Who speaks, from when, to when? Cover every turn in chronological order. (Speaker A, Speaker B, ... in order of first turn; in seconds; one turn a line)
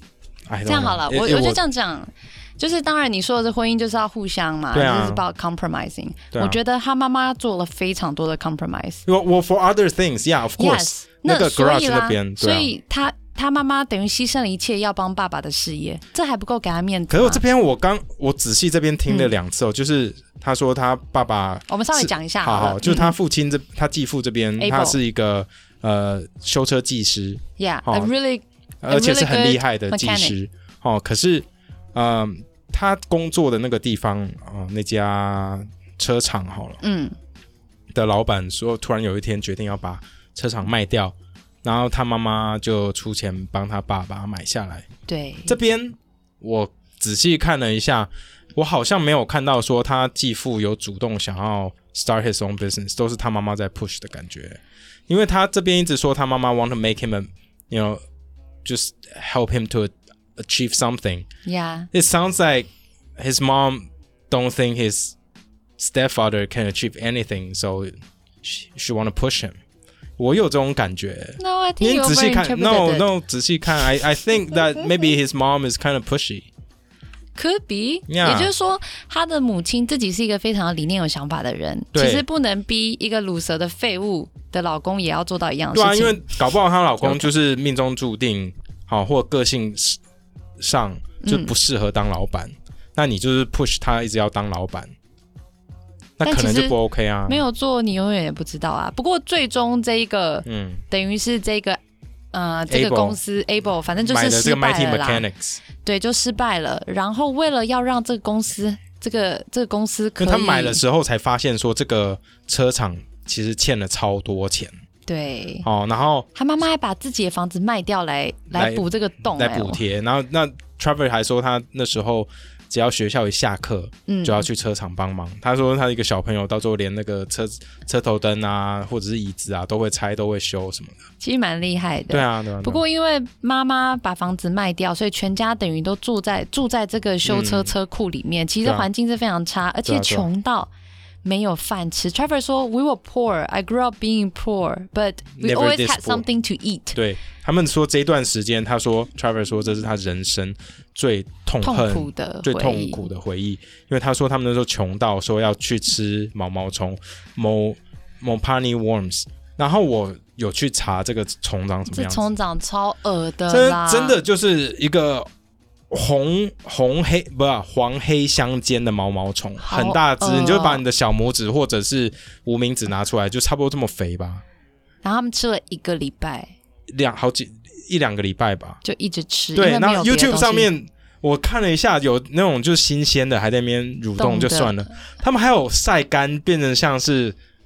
Speaker A: 0.5-1.6
Speaker B: 0.7-9.0
Speaker A: 4.7-5.2
Speaker A: 6.3-6.6
Speaker A: 9.1-12.7
Speaker B: 10.6-17.4
Speaker A: 17.1-28.1
Speaker B: 21.7-23.1
Speaker B: 24.6-25.0
Speaker B: 27.6-30.3
Speaker A: 28.8-36.8
Speaker B: 36.8-37.1
Speaker A: 37.9-44.9
Speaker B: 45.1-45.6
Speaker A: 45.5-58.0
Speaker A: 58.6-61.3
Speaker B: 61.5-61.9
Speaker A: 61.9-65.1
Speaker A: 65.8-67.9
Speaker A: 68.4-69.6
Speaker A: 70.2-76.5
Speaker B: 71.4-73.1
Speaker B: 77.3-86.3
Speaker A: 78.1-78.5
Speaker A: 81.9-82.2
Speaker A: 85.7-90.0
Speaker A: 90.6-94.9
Speaker B: 91.2-91.5
Speaker A: 96.2-97.4
Speaker B: 96.2-96.8
Speaker B: 97.3-101.8
Speaker A: 100.5-100.8
Speaker B: 102.3-105.2
Speaker A: 102.7-103.2
Speaker A: 104.1-105.6
Speaker B: 105.8-110.8
Speaker A: 110.2-114.7
Speaker B: 115.1-115.7
Speaker A: 115.6-116.3
Speaker B: 116.3-119.8
Speaker A: 118.5-131.0
Speaker B: 124.1-124.5
Speaker B: 131.2-140.7
Speaker A: 132.1-132.8
Speaker A: 137.2-137.7
Speaker A: 139.8-140.3
Speaker B: 141.2-147.0
Speaker A: 145.4-146.2
Speaker A: 146.9-162.3
Speaker B: 151.6-153.1
Speaker B: 161.9-164.2
Speaker A: 163.5-165.3
Speaker A: 165.9-174.4
Speaker B: 169.6-170.8
Speaker B: 175.0-176.5
Speaker A: 176.9-178.8
Speaker B: 178.8-180.7
Speaker A: 179.5-187.4
Speaker B: 184.2-184.7